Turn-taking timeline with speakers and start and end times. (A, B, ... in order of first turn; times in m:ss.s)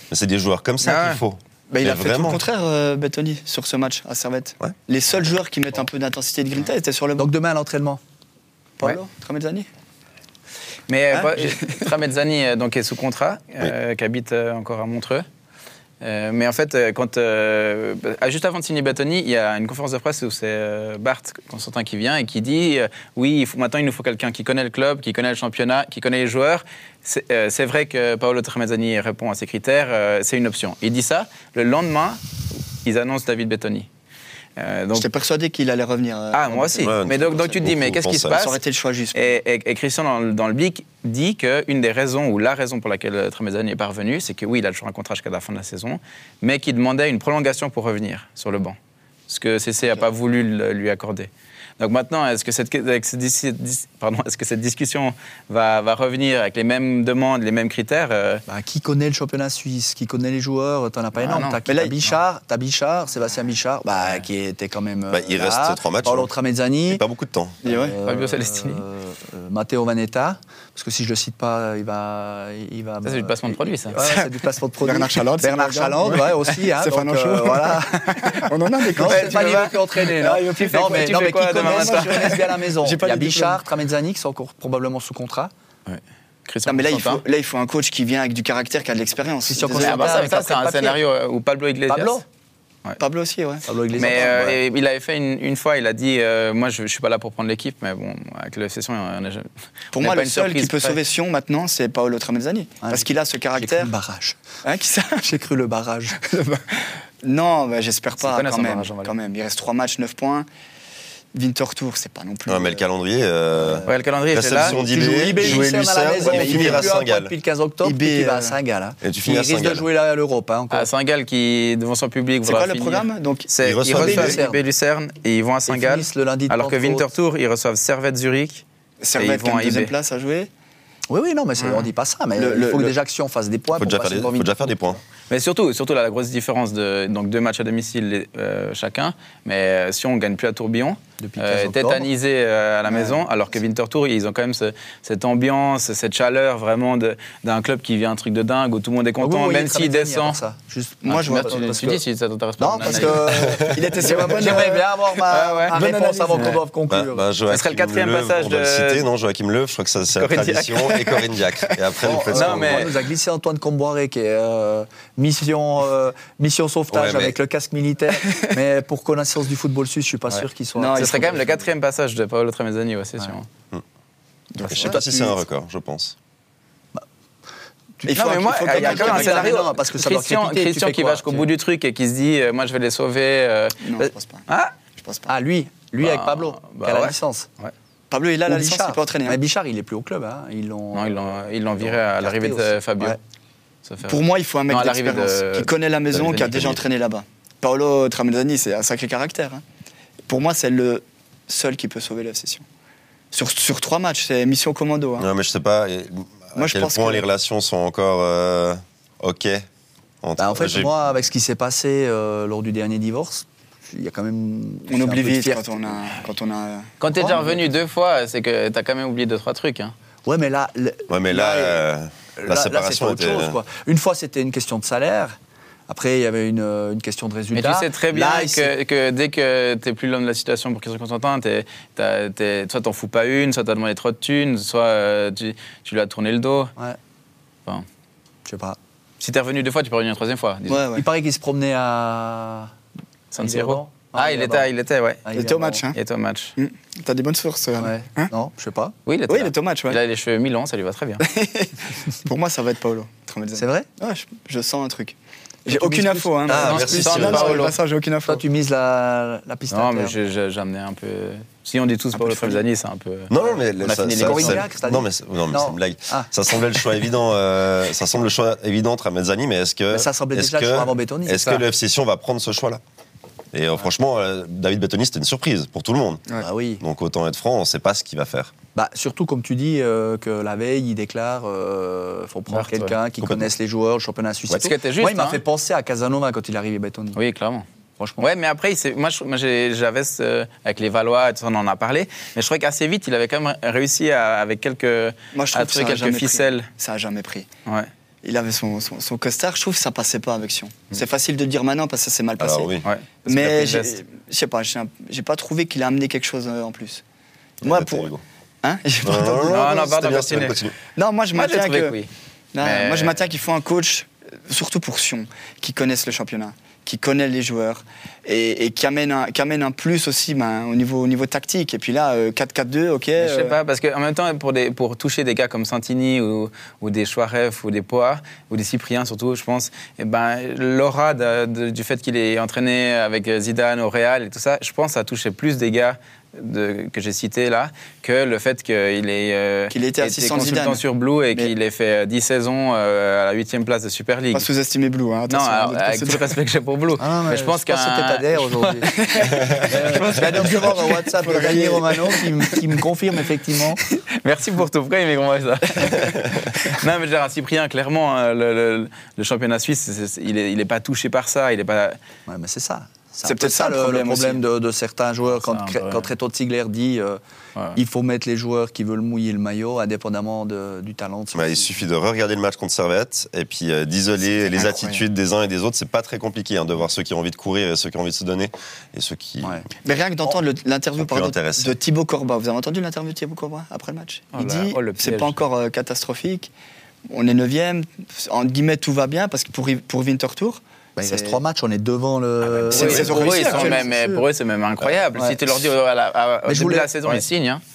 0:00.1-0:02.4 A
0:00.8-0:01.2 B
0:01.7-0:07.3 C
0:07.2-0:08.0 D
0:08.8-0:09.7 C
0:10.9-0:15.2 B
0:11.1-0:11.9 C
0:16.0-0:32.2 B
0:32.8-0:33.9 B
0:34.6-0:35.1 B
0:34.9-0:37.6 C
0:36.3-0:38.6 B
0:36.8-0:38.4 A
0:38.3-0:39.4 C
0:39.1-0:48.8 B
0:49.3-0:58.4 B
0:58.5-1:07.0 D
1:01.2-1:01.6 B
1:01.6-1:02.0 C
1:05.1-1:06.3 A
1:06.9-1:07.6 A
1:07.6-1:25.5 D
1:07.6-1:08.0 C
1:08.0-1:08.8 B
1:13.0-1:14.0 B
1:14.0-1:14.3 C
1:14.8-1:23.6 C
1:19.0-1:22.4 B
1:25.9-1:27.2 B
1:26.6-1:30.3 C
1:29.5-1:31.0 D
1:29.8-1:32.2 B
1:31.9-1:32.2 D
1:33.0-1:34.5 C
1:33.6-1:34.6 D
1:34.0-1:41.0 B
1:39.9-1:43.9 C
1:42.8-1:44.4 D
1:44.6-1:45.3 C
1:45.2-1:46.2 D
1:46.2-1:50.5 C
1:48.2-1:49.1 B
1:51.3-1:52.8 C
1:52.5-1:57.3 A
1:53.6-1:53.9 D
1:53.9-1:54.8 B
1:54.6-2:00.9 D
1:56.2-1:56.8 C
1:57.8-1:58.6 C
1:59.0-1:59.9 A
2:00.7-2:08.6 B
2:02.4-2:03.5 C
2:03.6-2:04.4 A
2:03.9-2:04.6 D
2:05.7-2:07.1 D
2:09.0-2:10.5 C
2:09.2-2:09.9 B
2:11.1-2:14.7 D
2:11.6-2:11.9 B
2:12.4-2:12.9 C
2:13.8-2:15.0 A
2:15.3-2:30.4 B
2:21.2-2:22.1 D
2:22.9-2:23.2 C
2:29.2-2:32.0 D
2:31.0-2:32.0 C
2:31.1-2:33.5 B
2:32.6-2:37.2 D
2:32.8-2:34.9 C
2:33.4-2:33.8 A
2:35.3-2:36.6 B
2:35.7-2:36.6 C
2:36.9-2:42.9 A
2:37.5-2:39.0 B
2:40.2-2:41.2 B
2:42.0-2:51.3 D
2:42.3-2:43.0 B
2:46.9-2:47.3 A
2:50.3-2:53.5 B
2:50.8-2:51.6 C
2:54.5-2:55.4 C
2:54.6-2:56.1 A
2:58.0-3:01.5 D
2:58.1-2:59.6 C
2:58.1-3:04.7 B
3:03.8-3:04.4 C
3:05.0-3:05.3 C
3:05.3-3:07.5 D
3:06.0-3:07.7 B
3:08.1-3:09.4 C
3:08.4-3:13.2 D
3:10.9-3:13.2 B
3:13.8-3:15.7 B
3:14.0-3:19.6 C
3:16.1-3:16.8 A
3:20.3-3:22.6 C
3:23.3-3:25.3 C
3:25.2-3:29.6 A
3:26.5-3:27.2 C
3:30.2-3:30.9 A
3:30.4-3:35.9 D
3:34.9-3:36.9 C
3:37.0-3:39.9 B
3:37.1-3:37.6 D
3:40.2-3:41.8 D
3:41.1-3:43.6 A
3:42.4-3:45.4 D
3:45.9-3:48.7 D
3:47.5-3:56.7 B
3:58.4-3:58.8 D
3:59.2-4:00.8 B
4:00.7-4:01.0 C
4:00.9-4:02.7 D
4:03.3-4:05.3 B
4:03.4-4:04.7 D
4:05.2-4:05.8 D
4:05.3-4:06.0 C
4:05.9-4:06.5 B
4:06.6-4:08.3 C
4:07.8-4:08.9 D
4:09.1-4:11.3 B
4:09.3-4:10.0 C
4:11.2-4:18.4 C
4:13.6-4:13.9 D
4:15.7-4:17.6 D
4:16.5-4:17.6 A
4:16.6-4:17.8 B
4:18.3-4:20.2 D
4:19.7-4:24.6 B
4:22.1-4:22.6 C
4:23.3-4:32.8 A
4:24.2-4:26.3 D
4:29.9-4:31.6 D
4:33.5-4:36.2 A
4:36.4-4:36.8 D
4:36.8-4:38.5 A
4:38.7-4:47.2 D
4:42.5-4:43.0 B
4:43.2-4:43.5 A
4:44.5-4:45.4 B
4:47.1-4:47.6 B
4:48.0-4:48.3 D
4:48.2-4:56.7 B
4:55.3-4:57.5 C
4:58.2-5:02.7 C
5:02.4-5:02.9 A
5:02.8-5:04.0 B
5:03.3-5:07.0 C
5:07.6-5:08.2 A
5:07.6-5:08.1 C
5:08.6-5:09.8 C
5:09.0-5:10.8 A
5:09.4-5:10.6 B
5:10.9-5:12.0 C
5:11.3-5:12.1 B
5:12.5-5:23.6 C
5:12.6-5:13.2 B
5:23.2-5:44.5 B
5:39.7-5:40.8 C
5:44.3-5:46.3 C
5:45.3-5:50.5 B
5:47.0-5:48.9 D
5:48.9-5:52.8 C
5:49.6-5:53.8 D
5:53.9-6:02.0 B
6:02.3-6:07.2 D
6:03.2-6:04.4 C
6:05.3-6:06.1 B
6:07.7-6:11.8 D
6:11.3-6:19.6 A
6:14.6-6:15.0 C
6:19.8-6:26.5 C
6:21.0-6:21.7 A
6:24.3-6:25.4 B
6:27.1-6:31.4 C
6:31.0-6:34.2 D
6:32.6-6:37.6 B
6:32.7-6:33.9 C
6:35.1-6:35.4 D
6:36.4-6:37.2 D